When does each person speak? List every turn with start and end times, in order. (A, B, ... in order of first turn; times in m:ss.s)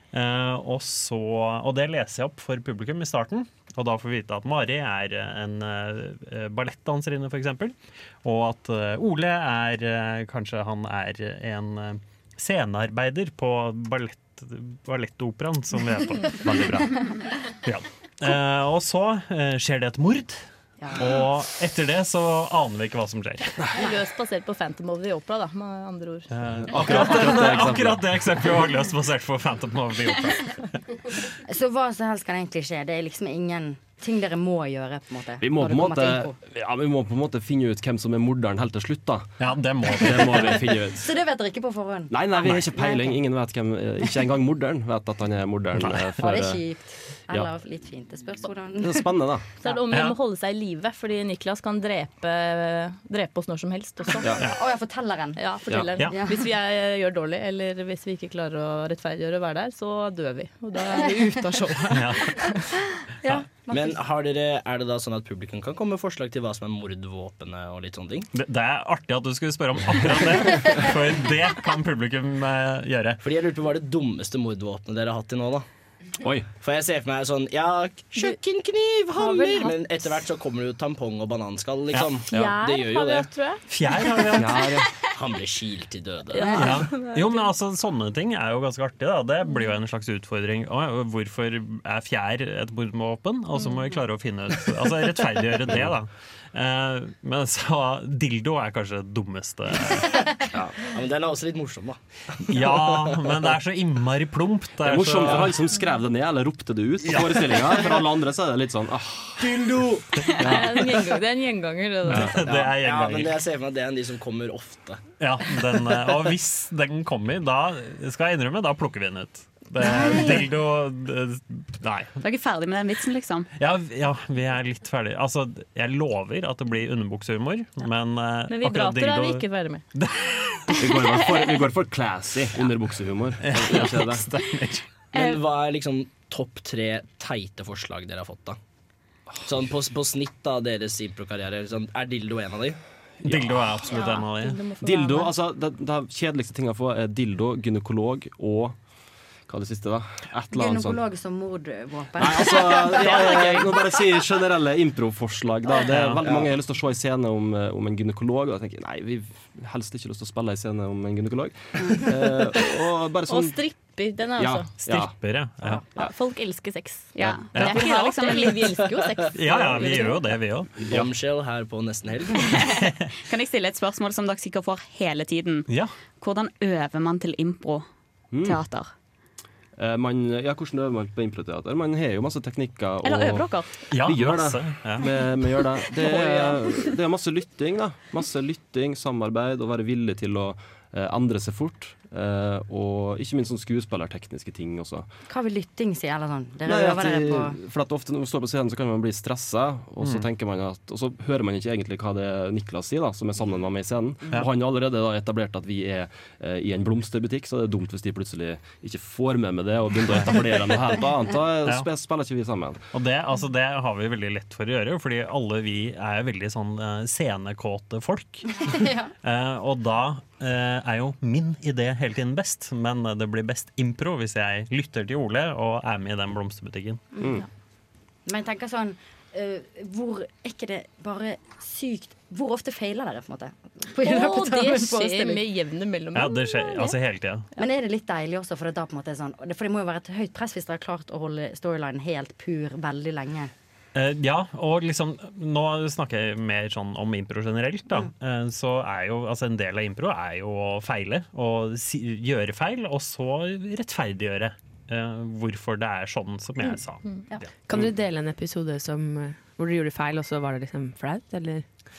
0:00.1-0:23.6 A
0:20.8-0:21.1 B
0:23.7-0:26.3 C
0:26.3-0:30.7 A
0:26.7-0:28.2 D
0:31.4-0:36.4 B
0:35.4-0:39.3 D
0:39.4-0:40.7 A
0:39.9-0:41.1 D
0:40.9-0:43.2 B
0:42.1-0:46.6 D
0:45.8-0:46.1 A
0:46.2-0:49.7 B
0:48.8-0:49.5 D
0:49.6-0:54.4 C
0:49.9-0:50.2 A
0:54.2-0:56.5 B
0:55.4-1:02.6 C
1:01.9-1:02.3 A
1:03.7-1:04.0 B
1:03.7-1:08.3 E
1:08.3-1:13.2 A
1:13.2-1:15.6 E
1:16.2-1:16.5 D
1:16.6-1:23.3 E
1:19.2-1:19.7 C
1:22.3-1:24.1 C
1:23.7-1:24.7 A
1:24.3-1:24.9 D
1:25.1-1:26.7 E
1:26.3-1:27.5 C
1:26.5-1:40.5 A
1:40.6-1:42.0 E
1:42.4-1:45.7 A
1:44.8-1:50.8 D
1:47.0-1:48.0 A
1:50.4-1:52.6 C
1:50.4-1:50.6 A
1:52.0-1:53.4 A
1:52.4-1:55.0 E
1:55.2-2:02.1 A
1:59.9-2:00.4 F
2:02.2-2:03.5 F
2:03.6-2:10.8 A
2:08.5-2:09.8 C
2:10.8-2:14.3 D
2:13.4-2:14.8 A
2:15.1-2:18.6 E
2:19.4-2:22.8 E
2:23.2-2:24.7 A
2:23.2-2:23.6 D
2:23.8-2:25.3 C
2:24.7-2:28.8 D
2:29.5-2:31.0 D
2:30.5-2:33.7 B
2:32.2-2:43.6 D
2:32.9-2:33.6 E
2:35.8-2:36.3 A
2:43.3-2:44.7 C
2:44.3-2:45.1 D
2:44.8-2:45.8 A
2:45.7-2:50.3 C
2:47.1-2:48.7 F
2:47.2-2:48.0 A
2:49.3-2:50.7 A
2:50.8-2:51.1 D
2:50.8-2:52.5 E
2:52.4-2:57.9 F
2:52.6-2:53.0 A
2:58.3-2:58.6 D
2:58.4-2:58.9 F
2:59.8-3:15.1 D
3:03.1-3:03.4 C
3:03.9-3:05.1 A
3:05.9-3:06.9 C
3:15.3-3:17.6 B
3:16.6-3:32.8 D
3:20.0-3:20.2 A
3:30.1-3:30.4 A
3:32.9-3:47.0 A
3:38.6-3:39.1 B
3:48.2-3:55.4 B
3:54.0-3:57.0 C
3:56.1-3:57.5 A
3:57.6-4:03.5 B
4:03.9-4:17.0 A
4:17.7-4:21.6 G